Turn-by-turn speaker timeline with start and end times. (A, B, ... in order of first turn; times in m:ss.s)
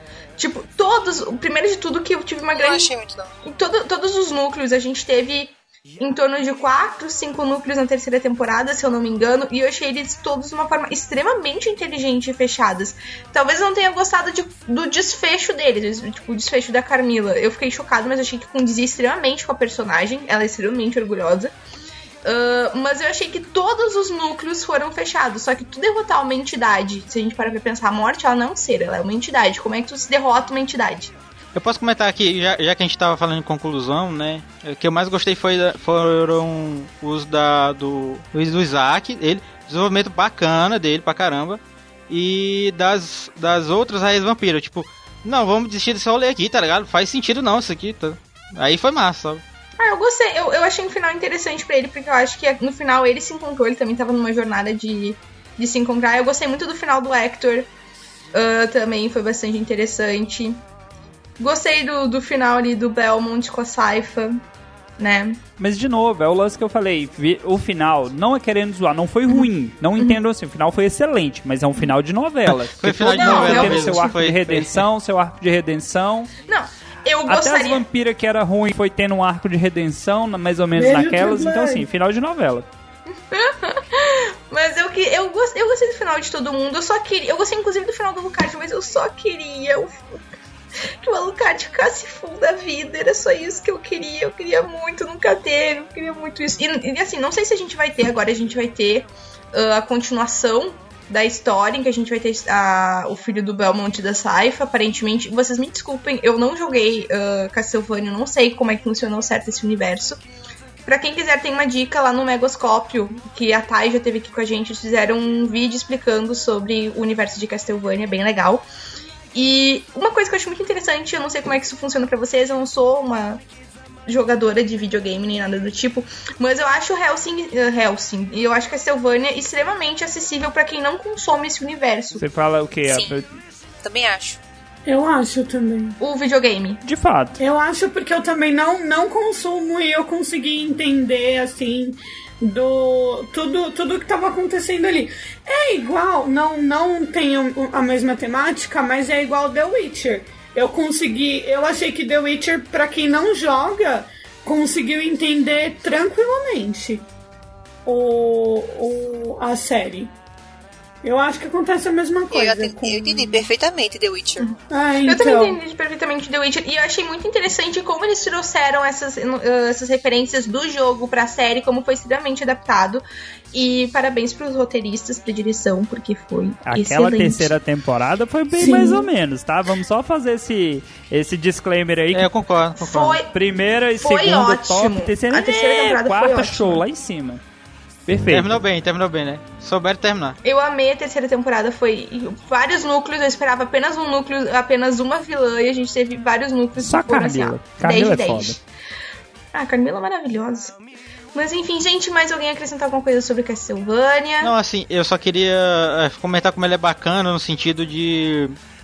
0:00.4-0:02.9 A
0:02.5-0:03.4 B
0:03.4-0:21.5 A
0:22.2-0:31.1 A
0:31.5-0:49.4 C
0:49.8-0:57.7 A
0:58.3-1:00.6 A
1:01.4-1:04.4 A
1:05.0-1:05.4 A
1:05.6-1:16.3 D
1:09.3-1:10.2 A
1:12.5-1:14.8 C
1:13.2-1:14.2 A
1:16.5-1:17.8 A
1:17.3-1:22.7 D
1:20.8-1:21.9 E
1:23.3-1:30.2 A
1:31.0-1:50.2 A
1:50.8-1:58.6 A
1:59.3-2:03.4 A
2:04.1-2:12.2 A
2:12.2-2:13.3 D
2:12.9-2:13.2 B
2:13.8-2:14.4 B
2:14.9-2:16.0 E
2:16.0-2:16.8 A
2:16.8-2:17.4 D
2:17.4-2:37.1 E
2:37.8-2:40.1 E
2:41.0-2:43.5 E
2:42.3-2:44.5 B
2:44.7-2:45.6 E
2:45.1-2:57.5 A
2:56.7-3:02.3 D
2:58.6-2:59.0 E
3:02.1-3:03.2 C
3:02.8-3:03.3 A
3:03.3-3:07.4 D
3:04.0-3:06.8 A
3:08.1-3:08.6 D
3:08.3-3:10.4 C
3:10.4-3:18.6 A
3:16.8-3:18.6 D
3:19.5-3:20.8 A
3:21.3-3:24.6 A
3:24.4-3:28.5 C